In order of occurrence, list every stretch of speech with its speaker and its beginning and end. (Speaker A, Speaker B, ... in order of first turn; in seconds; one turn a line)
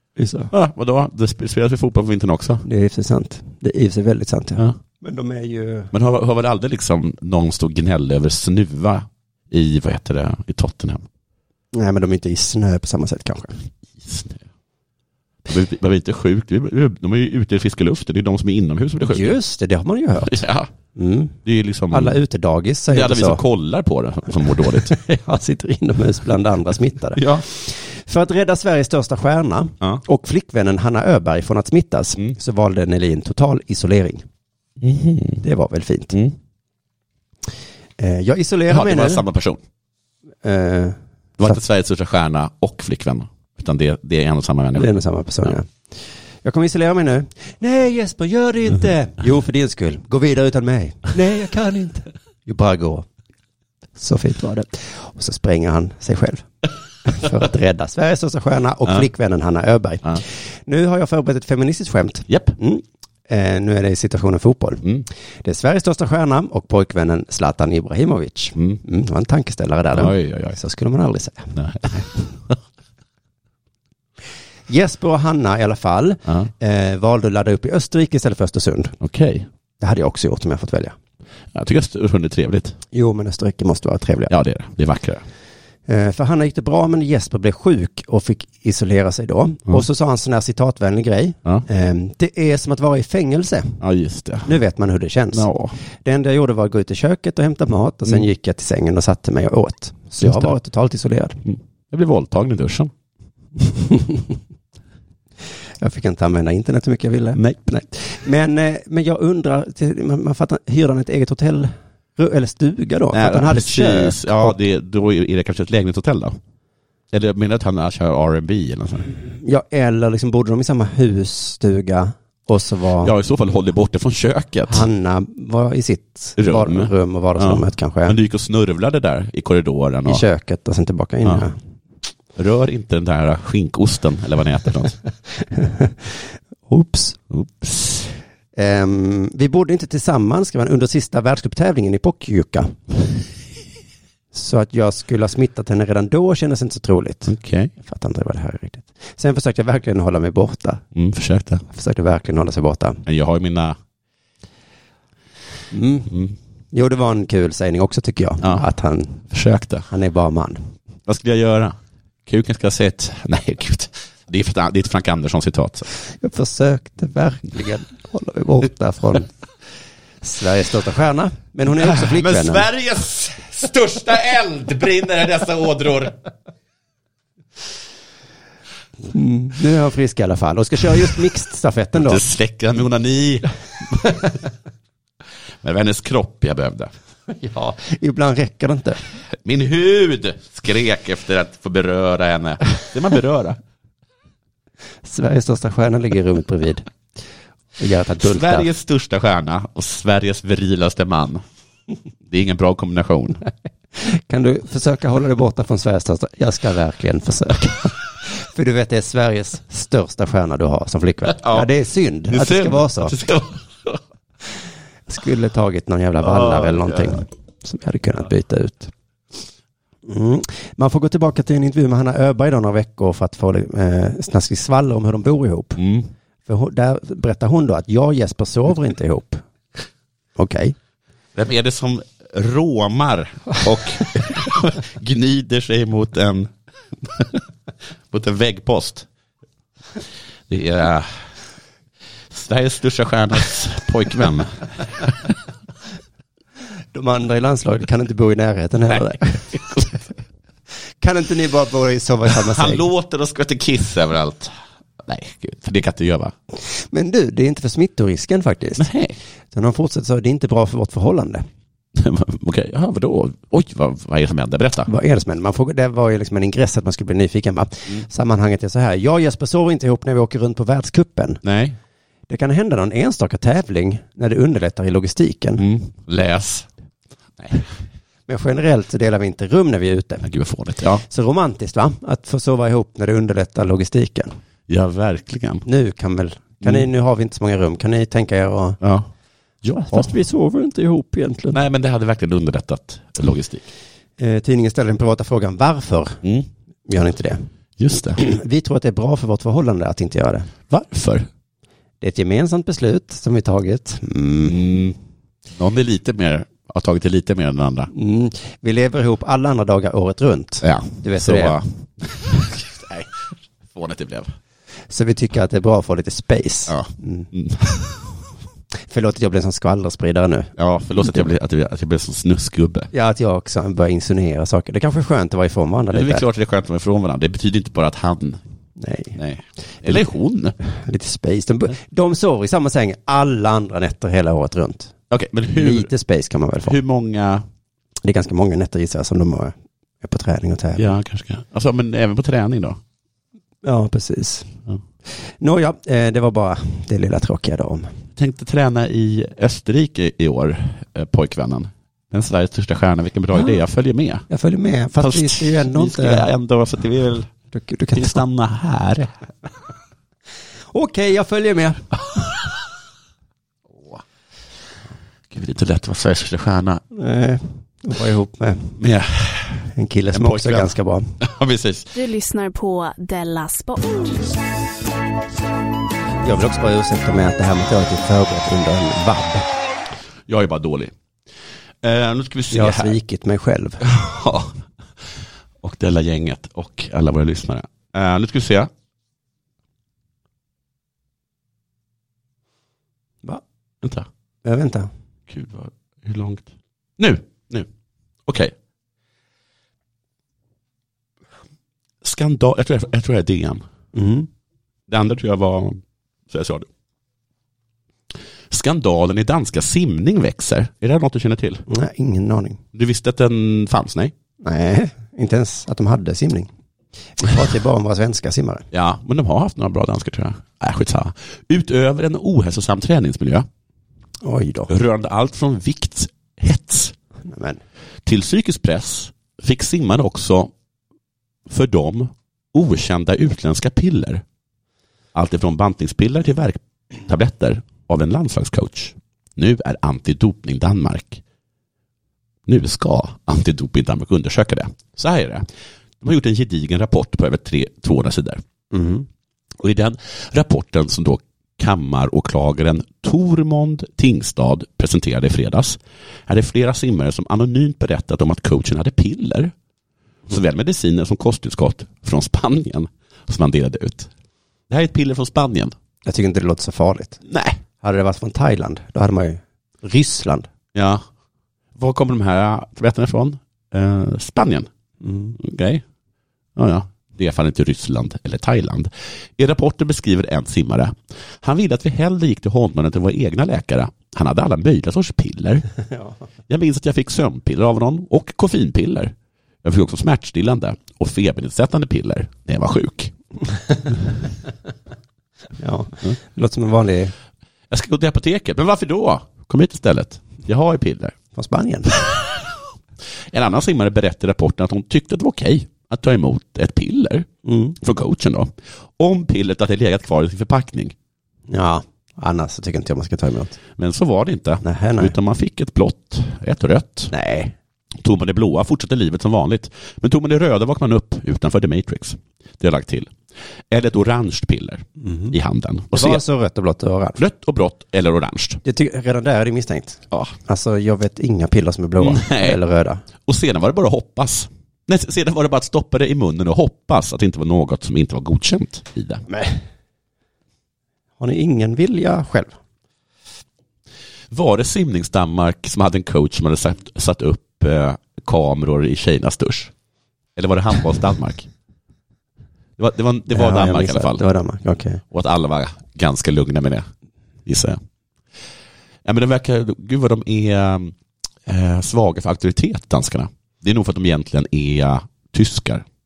Speaker A: 0.1-0.5
Speaker B: 0.5-2.6
Speaker A: 2.6-5.9
Speaker B: 5.9-11.1
Speaker A: 11.7-13.6
Speaker B: 14.0-14.4
Speaker B: 15.4-19.4
Speaker A: 19.1-20.4
Speaker B: 20.2-20.7
Speaker A: 20.9-21.4
Speaker B: 21.4-22.2
Speaker A: 21.9-23.4
Speaker B: 22.9-24.9
Speaker A: 24.6-34.2
Speaker B: 27.1-27.4
Speaker B: 34.8-35.4
Speaker A: 35.4-36.1
Speaker A: 38.0-39.2
Speaker B: 38.7-39.6
Speaker A: 40.4-41.0
Speaker B: 41.4-44.9
Speaker A: 44.7-45.8
Speaker A: 46.4-53.1
Speaker A: 54.0-56.5
Speaker A: 57.0-64.9
Speaker B: 62.3-62.5
Speaker A: 65.4-72.1
Speaker B: 69.9-70.6
Speaker B: 71.5-72.5
Speaker A: 74.7-79.0
Speaker B: 79.0-79.5
Speaker A: 79.8-80.9
Speaker B: 81.5-82.8
Speaker A: 82.9-84.3
Speaker B: 84.3-85.2
Speaker A: 85.9-93.8
Speaker B: 93.8-94.5
Speaker A: 94.4-95.5
Speaker B: 95.3-95.8
Speaker A: 96.0-101.4
Speaker B: 100.2-100.5
Speaker B: 101.5-102.9
Speaker A: 103.6-104.4
Speaker A: 105.8-114.6
Speaker B: 113.1-116.4
Speaker B: 117.1-119.1
Speaker A: 119.3-123.1
Speaker B: 123.0-124.9
Speaker A: 124.7-128.2
Speaker B: 126.4-130.2
Speaker A: 130.0-131.6
Speaker B: 132.4-135.0
Speaker A: 135.4-137.2
Speaker B: 137.3-138.1
Speaker A: 138.5-142.8
Speaker A: 144.3-150.8
Speaker B: 147.3-147.7
Speaker B: 150.9-151.6
Speaker A: 151.7-153.0
Speaker B: 153.1-153.8
Speaker A: 155.7-156.2
Speaker A: 156.7-159.3
Speaker B: 159.3-159.9
Speaker A: 159.9-160.7
Speaker B: 161.1-165.9
Speaker A: 166.0-169.3
Speaker A: 170.2-172.7
Speaker B: 171.8-176.2
Speaker A: 179.1-182.2
Speaker B: 181.9-184.2
Speaker B: 185.6-186.9
Speaker A: 187.3-189.0
Speaker B: 189.3-193.6
Speaker A: 195.0-196.9
Speaker A: 197.8-198.7
Speaker B: 198.2-201.4
Speaker B: 202.3-203.4
Speaker A: 203.9-213.1
Speaker B: 211.2-211.7
Speaker B: 212.3-214.0
Speaker A: 215.1-218.9
Speaker B: 216.2-217.1
Speaker A: 220.1-225.8
Speaker B: 225.8-226.1
Speaker A: 226.4-229.4
Speaker A: 230.4-230.8
Speaker B: 231.3-236.5
Speaker B: 237.1-237.4
Speaker B: 238.1-239.1
Speaker B: 240.5-241.3
Speaker B: 242.3-245.1
Speaker A: 246.9-250.0
Speaker A: 251.0-252.9
Speaker B: 252.3-256.3
Speaker A: 256.5-258.9
Speaker B: 258.8-259.2
Speaker A: 259.5-261.4
Speaker B: 261.9-264.9
Speaker A: 264.9-271.4
Speaker B: 271.4-271.8
Speaker A: 272.3-275.6
Speaker B: 275.6-276.7
Speaker B: 277.4-277.6
Speaker A: 278.3-280.3
Speaker B: 280.2-281.0
Speaker A: 281.0-284.4
Speaker B: 284.7-285.6
Speaker A: 285.6-288.8
Speaker B: 288.8-289.1
Speaker B: 289.6-290.1
Speaker A: 289.8-291.6
Speaker B: 291.5-293.6
Speaker A: 294.2-296.2
Speaker A: 296.9-297.4
Speaker B: 297.8-298.2
Speaker A: 298.1-300.5
Speaker B: 300.7-301.3
Speaker A: 302.0-304.7
Speaker B: 304.4-304.9
Speaker B: 305.5-307.9
Speaker A: 307.9-311.6
Speaker B: 310.6-314.4
Speaker A: 314.9-317.3
Speaker B: 316.7-318.1
Speaker A: 318.8-321.3
Speaker B: 320.6-322.9
Speaker A: 322.9-326.2
Speaker B: 325.9-328.4
Speaker A: 328.8-329.2
Speaker B: 329.1-330.6
Speaker A: 330.6-334.9
Speaker B: 335.1-335.9
Speaker A: 335.5-336.8
Speaker B: 336.6-337.4
Speaker A: 338.0-340.9
Speaker B: 340.8-342.8
Speaker A: 343.6-344.6
Speaker A: 345.4-347.9
Speaker B: 348.1-354.3
Speaker A: 354.3-356.3
Speaker B: 355.0-357.3
Speaker A: 357.5-358.2
Speaker B: 357.9-359.1
Speaker A: 360.7-361.9
Speaker B: 363.8-364.0
Speaker B: 365.3-366.8
Speaker A: 366.9-368.8
Speaker B: 368.8-371.9
Speaker A: 369.7-371.2
Speaker C: 371.9-374.3
Speaker A: 376.2-379.5
Speaker B: 380.3-380.9
Speaker B: 381.8-382.9
Speaker A: 382.5-383.8
Speaker B: 383.8-384.6
Speaker B: 385.6-388.7
Speaker B: 393.8-394.1
Speaker A: 394.4-394.9
Speaker B: 395.3-397.7
Speaker B: 398.2-398.5
Speaker B: 402.0-403.6
Speaker A: 403.9-404.3
Speaker B: 404.9-406.7
Speaker B: 408.5-411.6
Speaker A: 411.7-412.6
Speaker B: 412.7-414.1
Speaker A: 414.4-416.5
Speaker A: 417.2-418.6
Speaker B: 418.7-423.5
Speaker A: 424.2-424.7
Speaker B: 424.7-426.9
Speaker A: 427.2-427.6
Speaker B: 428.0-430.5
Speaker B: 431.5-434.2
Speaker B: 435.1-441.2
Speaker B: 442.4-445.4
Speaker B: 446.0-448.4
Speaker A: 448.7-449.1
Speaker B: 449.6-459.5
Speaker B: 460.3-464.1
Speaker B: 464.7-465.7
Speaker A: 466.1-467.2
Speaker B: 467.3-467.6
Speaker A: 467.8-470.5
Speaker B: 470.7-471.0
Speaker B: 471.8-474.7
Speaker A: 475.0-475.4
Speaker B: 475.4-475.8
Speaker B: 476.6-485.7
Speaker B: 486.5-493.1
Speaker A: 495.6-497.1
Speaker B: 497.7-501.1
Speaker A: 501.3-501.9
Speaker B: 502.0-502.5
Speaker B: 503.3-510.9
Speaker A: 507.4-507.8
Speaker A: 511.5-513.6
Speaker B: 513.8-517.1
Speaker A: 514.6-515.1
Speaker A: 517.1-517.5
Speaker B: 518.0-523.1
Speaker B: 523.7-526.2
Speaker A: 525.0-525.4
Speaker A: 525.9-527.2
Speaker B: 527.2-528.6
Speaker A: 528.6-533.0
Speaker B: 532.0-532.6
Speaker B: 533.2-539.2
Speaker A: 539.3-539.6
Speaker A: 541.2-542.6
Speaker B: 544.3-549.7
Speaker B: 550.4-551.5
Speaker B: 552.8-554.2
Speaker A: 553.3-555.0
Speaker B: 555.1-556.9
Speaker B: 557.5-557.8
Speaker B: 559.0-560.9
Speaker B: 561.4-565.9